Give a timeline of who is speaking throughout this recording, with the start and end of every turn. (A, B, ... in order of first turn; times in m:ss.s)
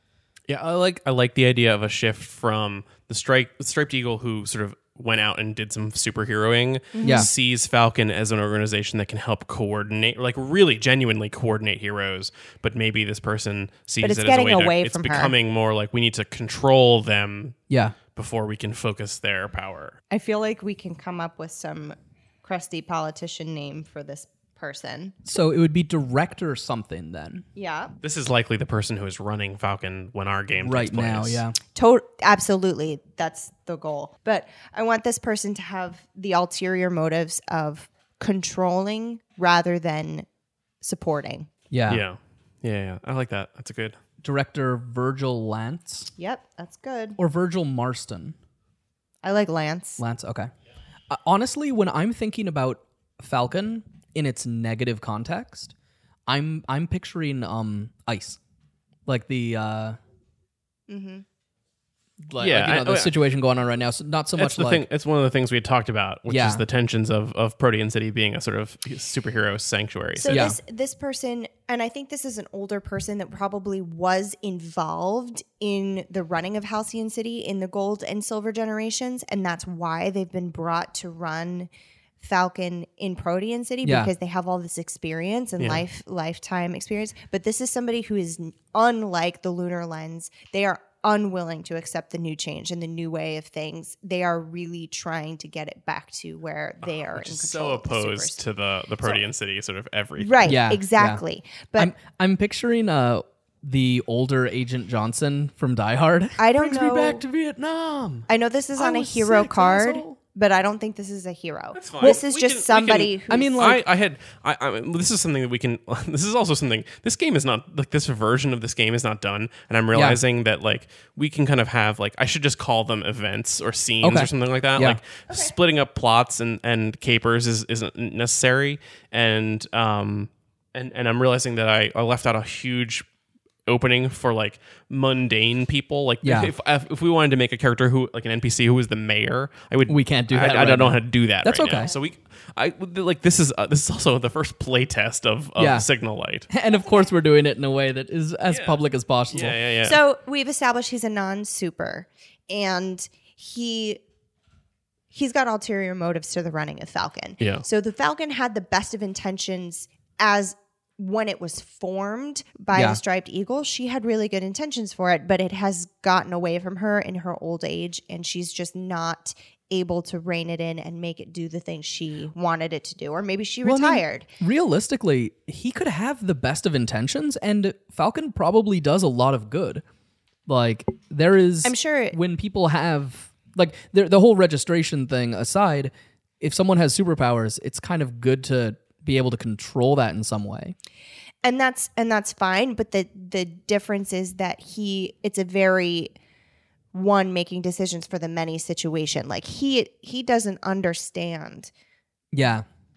0:00.5-0:17.6 A
0:06.9-0:07.3 B
0:07.0-0:07.3 C
0:14.0-0:15.4 B
0:17.7-0:18.0 C
0:18.2-0:20.0 A
0:20.1-0:25.1 B
0:25.2-0:27.4 C
0:27.6-0:27.9 B
0:28.0-0:31.4 A
0:30.6-0:31.6 C
0:31.7-0:40.3 B
0:40.8-0:41.5 B
0:41.7-0:42.0 C
0:41.9-0:44.0 A
0:44.2-0:46.1 C
0:46.2-0:47.2 B
0:47.2-0:48.4 C
0:49.2-0:50.0 B
0:50.0-0:50.5 C
0:51.1-0:55.7 C
0:56.3-0:58.4 C
0:59.1-1:00.0 C
1:00.9-1:01.2 B
1:02.3-1:04.8 C
1:02.4-1:03.1 A
1:04.4-1:10.5 A
1:06.3-1:06.6 C
1:10.2-1:38.4 B
1:10.3-1:10.6 C
1:23.8-1:24.1 C
1:36.9-1:40.5 A
1:40.2-1:41.9 B
1:40.4-1:41.2 C
1:41.8-1:50.2 C
1:46.4-1:47.2 B
1:48.3-1:53.7 B
1:51.7-2:13.0 A
1:53.3-1:53.8 C
1:59.9-2:00.2 C
2:04.0-2:05.0 C
2:13.7-2:26.5 A
2:16.2-2:16.5 C
2:19.9-2:21.9 C
2:25.6-2:25.9 C
2:26.5-2:29.6 C
2:28.5-2:28.8 A
2:29.3-2:30.0 A
2:29.8-2:34.0 B
2:35.1-2:54.3 B
2:42.7-2:43.0 C
2:53.6-2:59.8 C
3:00.5-3:10.7 C
3:01.6-3:02.2 B
3:11.4-3:16.2 B
3:16.9-3:21.7 B
3:22.3-3:22.7 C